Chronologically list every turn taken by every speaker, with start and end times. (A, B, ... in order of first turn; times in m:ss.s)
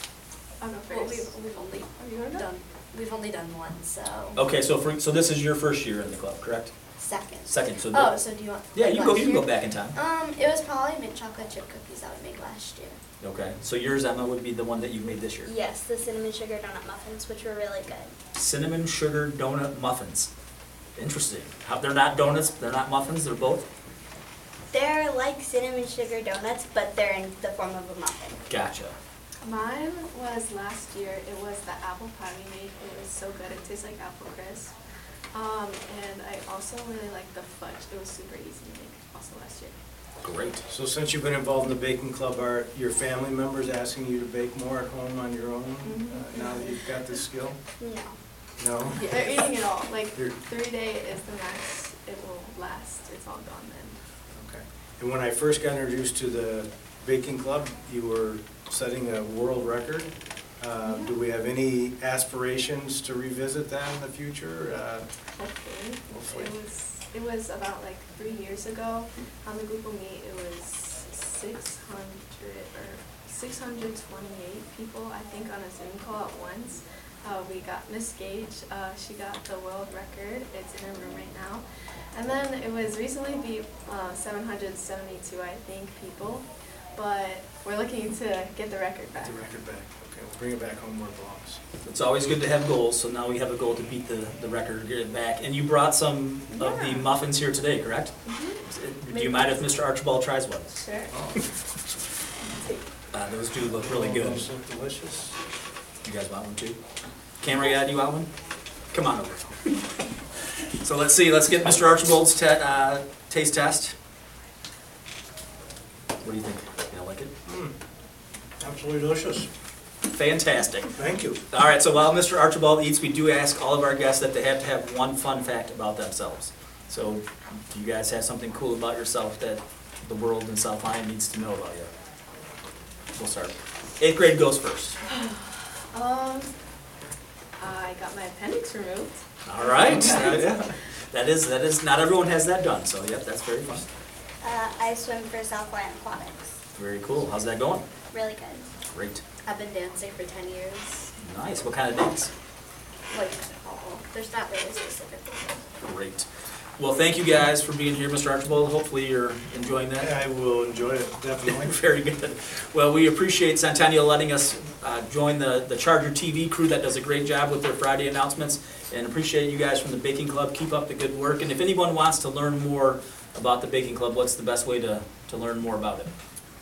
0:00.6-0:01.3 A
0:00.9-0:04.4 B
0:01.9-0:02.5 A
0:04.3-0:06.7 C
0:07.0-0:13.0 B
0:07.4-0:08.1 C
0:08.7-0:10.0 C
0:13.2-0:15.5 C
0:15.4-0:18.1 D
0:18.3-0:20.3 C
0:21.0-0:23.6 C
0:24.7-0:28.4 D
0:28.5-0:28.9 C
0:29.4-0:34.7 A
0:35.3-0:39.7 A
0:40.2-0:40.6 C
0:40.7-0:47.6 E
0:45.8-0:46.7 A
0:47.8-0:48.1 D
0:48.6-0:49.0 E
0:49.0-0:54.0 A
0:54.3-1:05.1 E
1:00.8-1:01.1 A
1:05.3-1:29.5 A
1:06.1-1:06.5 E
1:29.2-1:31.6 E
1:31.8-1:38.1 C
1:36.5-1:37.1 A
1:38.2-1:39.6 A
1:38.6-1:40.8 C
1:40.8-1:41.1 A
1:41.1-1:41.4 E
1:42.4-1:42.8 A
1:43.1-1:44.5 C
1:43.8-1:45.4 E
1:46.0-1:46.8 C
1:47.4-1:48.3 C
1:48.9-1:49.8 C
1:50.8-1:53.9 C
1:56.2-1:57.3 C
1:57.4-1:57.7 E
1:58.6-1:59.5 E
2:00.0-2:00.9 C
2:01.0-2:01.4 E
2:01.5-2:11.9 C
2:13.1-2:15.0 C
2:15.1-2:16.5 A
2:17.6-2:20.6 A
2:19.4-2:23.8 C
2:24.4-2:26.6 D
2:26.8-2:27.8 C
2:28.1-2:28.7 D
2:28.9-2:29.2 C
2:29.4-2:31.1 B
2:31.2-2:32.3 C
2:33.1-2:35.6 B
2:35.8-2:36.2 C
2:36.8-2:40.1 C
2:40.0-2:41.8 E
2:41.5-2:56.1 C